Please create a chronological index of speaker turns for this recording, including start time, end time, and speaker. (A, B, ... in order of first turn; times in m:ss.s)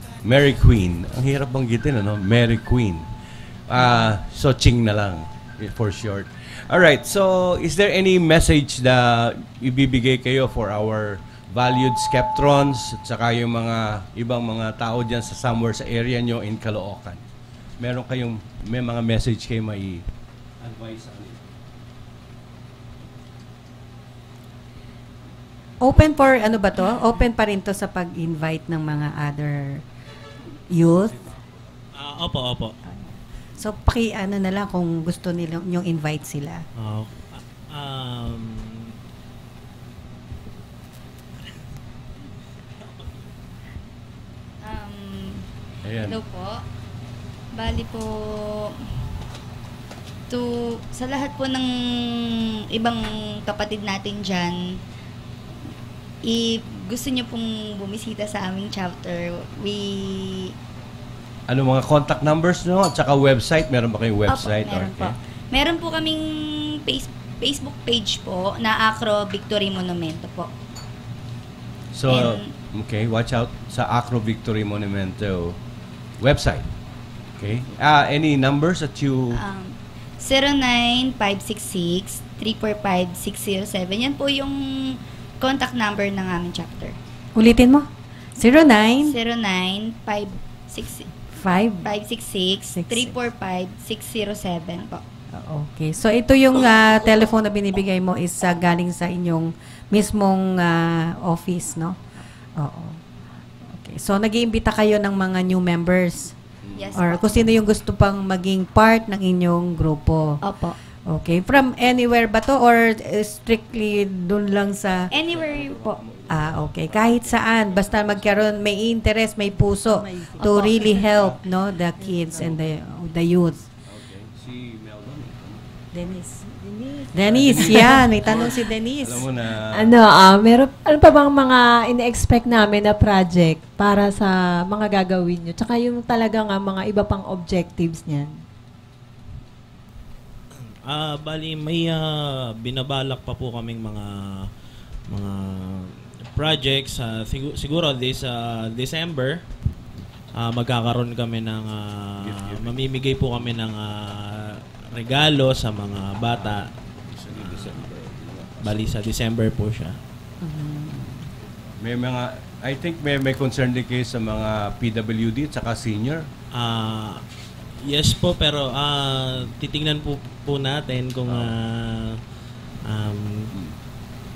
0:00.2-0:03.1 A
0:03.7-0:17.2 A
0:17.8-0:20.0 A
0:20.6-0:21.4 A
0:25.8-0:29.8 B
0:30.7-0:31.2 B
0:32.0-0:32.7 C
0:33.6-0:36.6 B
0:36.8-0:38.9 C
0:44.6-0:45.4 D
0:45.8-0:46.2 A
0:46.0-0:46.6 D
0:47.5-0:48.7 D
0:50.3-0:54.8 D
0:56.2-1:00.5 D
1:01.5-1:05.1 A
1:04.3-1:10.5 D
1:11.9-1:15.6 A
1:12.1-1:12.5 D
1:16.2-1:16.7 A
1:17.4-1:19.4 A
1:19.3-1:27.0 D
1:27.4-1:27.9 B
1:28.4-1:29.1 B
1:29.0-1:31.1 D
1:31.3-1:31.9 B
1:31.8-1:35.0 D
1:32.7-1:33.2 B
1:35.3-1:42.0 B
1:42.6-1:43.0 B
1:43.7-1:46.3 B
1:46.6-1:47.0 A
1:46.7-1:47.5 D
1:46.9-1:50.4 B
1:50.4-1:50.7 E
1:51.1-1:55.1 B
1:55.1-1:56.1 D
1:55.1-1:58.5 A
1:56.3-2:03.6 B
2:00.0-2:01.0 E
2:01.0-2:01.4 A
2:02.0-2:02.5 E
2:03.8-2:05.6 A
2:05.9-2:06.4 B
2:06.6-2:08.1 E
2:07.1-2:09.3 B
2:07.2-2:09.9 A
2:09.8-2:18.3 E
2:20.8-2:24.5 C
2:25.1-2:29.4 C
2:30.3-2:36.7 C
2:32.2-2:32.8 A
2:36.3-2:39.0 A
2:37.3-2:37.8 C
2:38.6-2:40.0 C
2:40.4-2:41.2 B
2:41.8-2:46.3 A
2:46.5-2:47.2 C
2:47.8-2:52.2 C
2:51.2-2:51.5 A
2:52.9-2:53.5 C